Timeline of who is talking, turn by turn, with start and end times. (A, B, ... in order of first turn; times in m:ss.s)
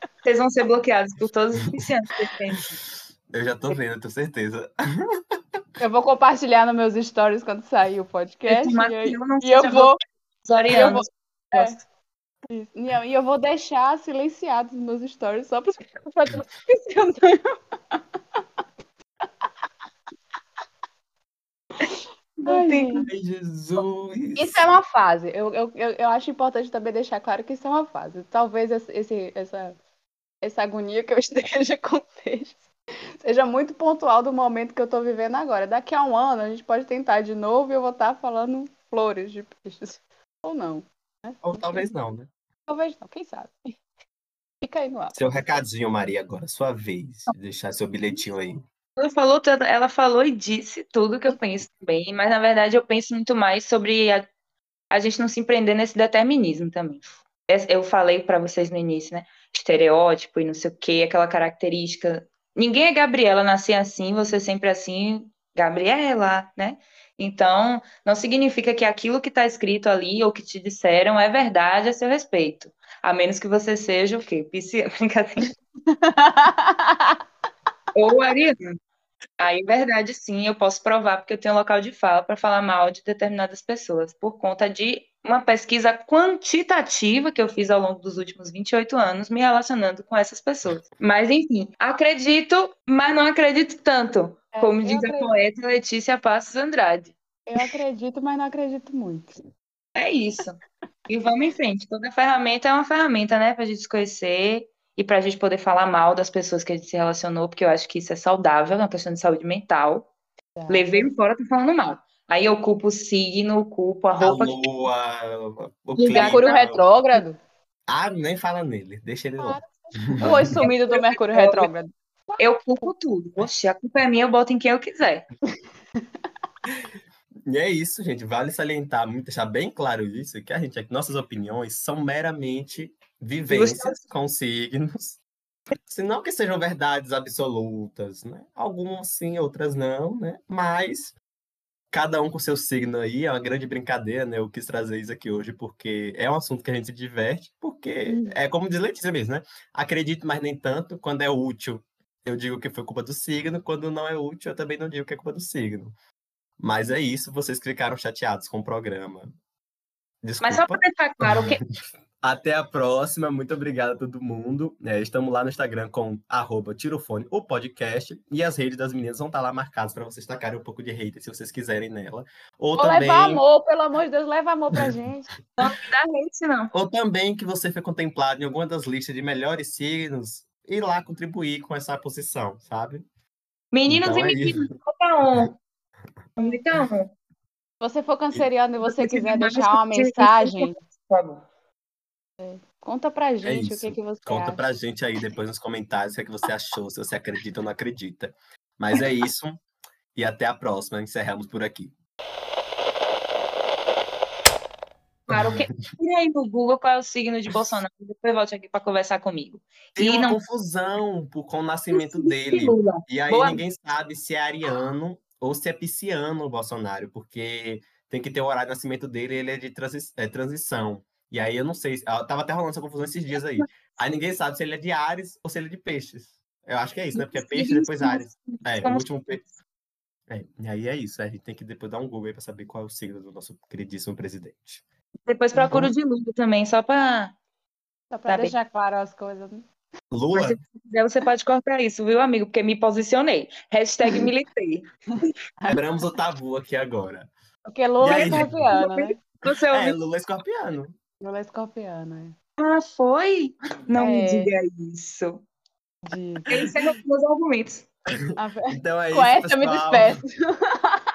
0:00.2-0:02.8 A
0:03.3-0:05.6 B
0:05.8-0:10.0 C
0:08.5-0:09.9 A
0:10.4-0:11.8 A
0:10.7-0:11.8 C
0:12.5-0:17.6 C
0:22.4-0:23.1 A
0:22.4-0:23.0 C
0:23.0-0:24.8 B
0:24.4-0:29.8 C
0:30.4-0:32.6 C
0:33.2-0:41.8 C
0:41.4-0:42.3 B
0:42.7-0:43.8 C
0:44.6-0:45.6 C
0:45.1-0:48.6 B
0:49.0-0:54.3 A
0:54.9-1:15.5 A
1:15.9-1:17.2 C
1:17.9-1:18.6 A
1:19.4-1:37.7 A
1:34.5-1:35.3 C
1:37.5-1:39.3 C
1:40.0-1:50.1 A
1:50.6-1:51.1 C
1:50.7-1:54.6 A
1:54.2-1:56.8 B
1:56.0-1:56.6 A
1:56.1-1:57.4 C
1:57.9-2:00.6 B
1:59.4-2:02.9 C
2:00.2-2:01.7 A
2:02.4-2:05.2 A
2:07.4-2:15.2 B
2:13.5-2:14.0 A
2:15.8-2:21.1 B
2:21.9-2:35.9 B
2:28.1-2:28.4 C
2:36.6-2:39.3 B
2:40.2-2:41.6 B
2:40.4-2:41.6 A
2:42.2-2:53.4 B
2:52.8-2:55.3 C
2:55.6-2:56.7 A
2:56.7-3:03.0 B
3:03.7-3:05.6 A
3:03.9-3:04.7 B
3:06.4-3:07.1 A
3:07.8-3:10.7 C
3:08.8-3:11.4 A
3:12.4-3:14.6 C
3:13.4-3:19.6 B
3:20.1-3:21.9 B
3:25.3-3:25.9 B
3:25.3-3:30.4 A
3:30.0-3:49.4 B
3:31.9-3:33.6 A
3:47.1-3:49.4 A
3:50.3-3:54.8 B
3:55.2-3:57.3 A
3:55.6-3:55.9 B
3:58.1-3:59.6 C
3:58.2-3:58.5 A
4:00.1-4:00.6 B
4:00.3-4:04.9 A
4:05.7-4:07.3 B
4:07.7-4:09.2 C
4:08.0-4:08.7 B
4:08.1-4:10.0 A
4:09.7-4:10.9 B
4:11.2-4:12.4 C
4:12.6-4:15.4 A
4:13.9-4:14.5 C
4:16.0-4:16.4 C
4:16.5-4:16.8 B
4:16.5-4:17.8 A
4:18.1-4:20.2 B
4:18.4-4:21.0 C